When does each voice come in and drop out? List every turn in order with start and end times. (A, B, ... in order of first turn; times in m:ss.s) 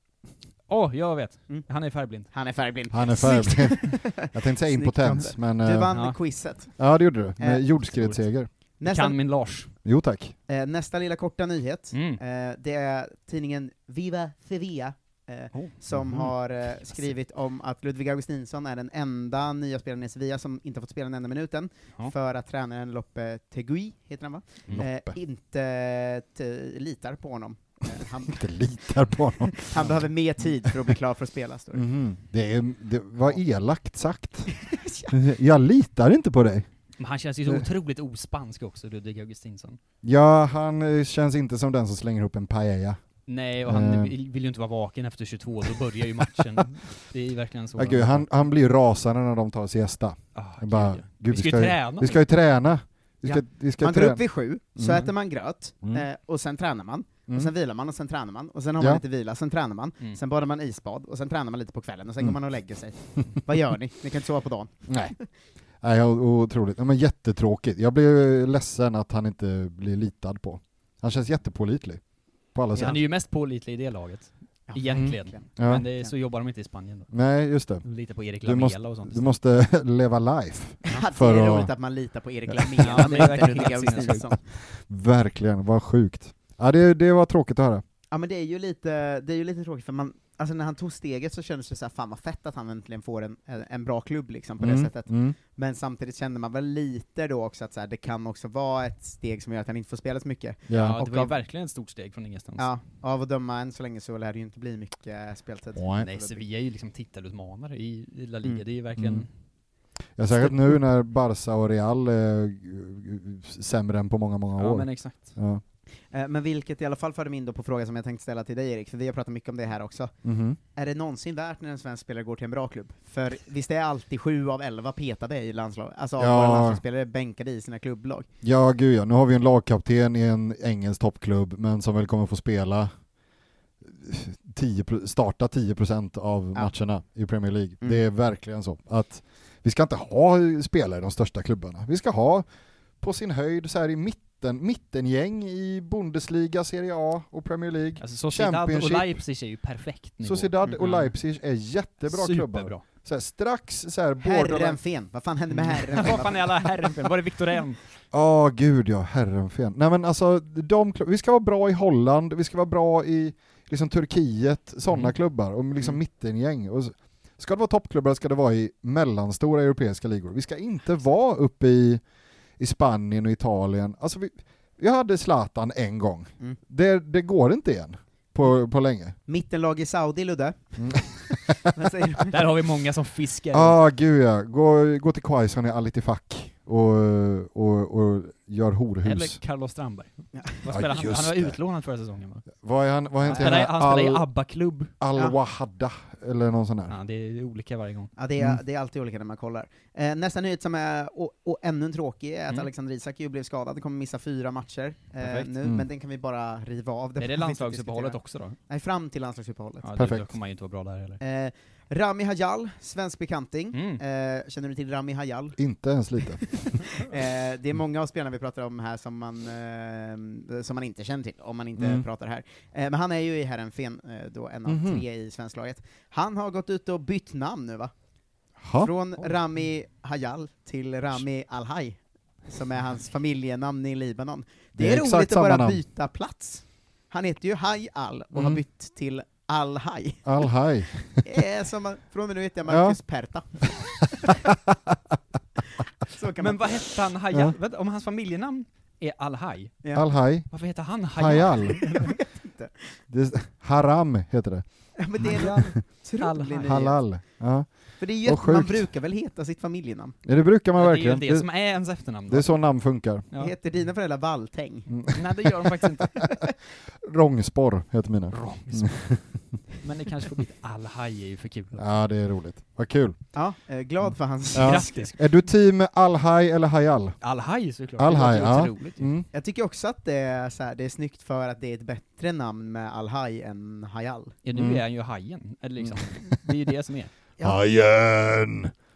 0:00.7-0:02.3 A
0:02.3-0:06.8 B
0:02.9-0:05.9 C
0:05.9-0:06.2 A
0:06.8-0:08.5 C
0:07.4-0:07.9 B
0:07.9-0:08.2 A
0:08.8-0:09.2 B
0:08.8-0:09.7 A
0:09.8-0:10.4 C
0:10.5-0:28.4 B
0:11.9-0:12.2 A
0:15.5-0:17.1 A
0:24.7-0:25.2 C
0:28.3-0:29.9 C
0:29.5-0:31.8 B
0:31.7-0:34.5 C
0:34.6-0:35.1 B
0:35.1-0:36.7 C
0:37.0-0:39.8 A
0:40.0-0:43.0 C
0:43.3-0:48.3 A
0:43.6-0:44.1 C
0:47.8-0:54.2 C
0:50.4-0:52.2 A
0:53.2-1:05.2 B
0:54.8-0:55.1 C
1:04.9-1:05.2 C
1:05.8-1:12.0 C
1:12.5-1:13.0 C
1:12.8-1:17.1 A
1:14.7-1:16.1 B
1:14.9-1:15.9 C
1:17.1-1:17.9 C
1:17.8-1:19.3 A
1:18.4-1:21.7 C
1:20.9-1:24.4 B
1:22.8-1:23.2 C
1:22.8-1:24.3 A
1:24.7-1:27.8 C
1:28.1-1:41.4 B
1:34.6-1:35.4 C
1:40.7-1:41.0 C
1:40.7-1:42.7 A
1:42.6-1:46.4 B
1:45.8-1:46.1 C
1:46.0-1:49.3 A
1:49.0-1:49.3 C
1:50.2-1:55.6 C
1:54.6-1:55.3 A
1:56.1-2:00.1 B
2:00.2-2:00.6 C
2:00.8-2:08.3 B
2:06.2-2:06.8 C
2:08.4-2:12.9 C
2:13.8-2:22.4 C
2:23.0-2:29.2 C
2:28.0-2:31.1 A
2:30.2-2:34.8 C
2:32.1-2:32.8 A
2:34.2-2:36.8 B
2:35.5-2:37.8 A
2:38.1-2:52.0 C
2:44.9-2:45.2 A
2:52.6-2:59.2 C
2:59.3-3:02.4 B
3:00.8-3:01.7 C
3:02.3-3:03.8 A
3:03.5-3:09.4 C
3:09.0-3:12.5 A
3:10.7-3:11.6 C
3:12.6-3:14.3 C
3:13.3-3:13.6 B
3:13.3-3:14.9 A
3:15.0-3:17.0 C
3:16.9-3:18.1 A
3:18.2-3:29.9 B
3:25.2-3:25.5 A
3:27.2-3:28.6 A
3:29.8-3:31.2 A
3:30.0-3:30.3 C
3:31.2-3:35.6 B
3:33.7-3:34.0 A
3:35.6-3:36.8 C
3:36.9-3:47.9 B
3:41.8-3:42.0 C
3:44.7-3:45.0 C
3:48.6-3:48.9 C
3:48.8-4:00.3 B
3:54.8-3:55.8 C
3:58.4-3:58.6 C
4:00.2-4:01.3 C
4:01.2-4:03.9 B
4:02.7-4:03.0 C
4:04.5-4:05.0 C
4:06.1-4:06.9 B
4:06.4-4:09.8 A
4:10.0-4:10.5 C
4:10.5-4:12.2 A
4:11.1-4:11.9 C
4:12.0-4:12.9 B
4:13.1-4:14.6 C
4:15.0-4:17.0 B
4:15.2-4:16.8 A
4:16.6-4:18.9 C
4:18.0-4:20.2 B
4:20.2-4:21.5 C
4:20.8-4:22.5 A
4:22.3-4:23.2 C
4:23.4-4:24.9 B
4:24.9-4:26.0 C
4:25.1-4:26.2 A
4:27.0-4:29.2 C
4:28.3-4:29.2 A
4:29.8-4:31.8 A
4:31.8-4:33.2 C
4:33.3-4:35.1 B
4:34.5-4:35.2 A
4:34.6-4:37.2 C
4:37.2-4:39.1 A
4:38.0-4:39.3 C
4:39.3-4:44.4 B
4:44.4-4:47.1 A
4:44.6-4:44.8 C
4:47.4-4:48.7 C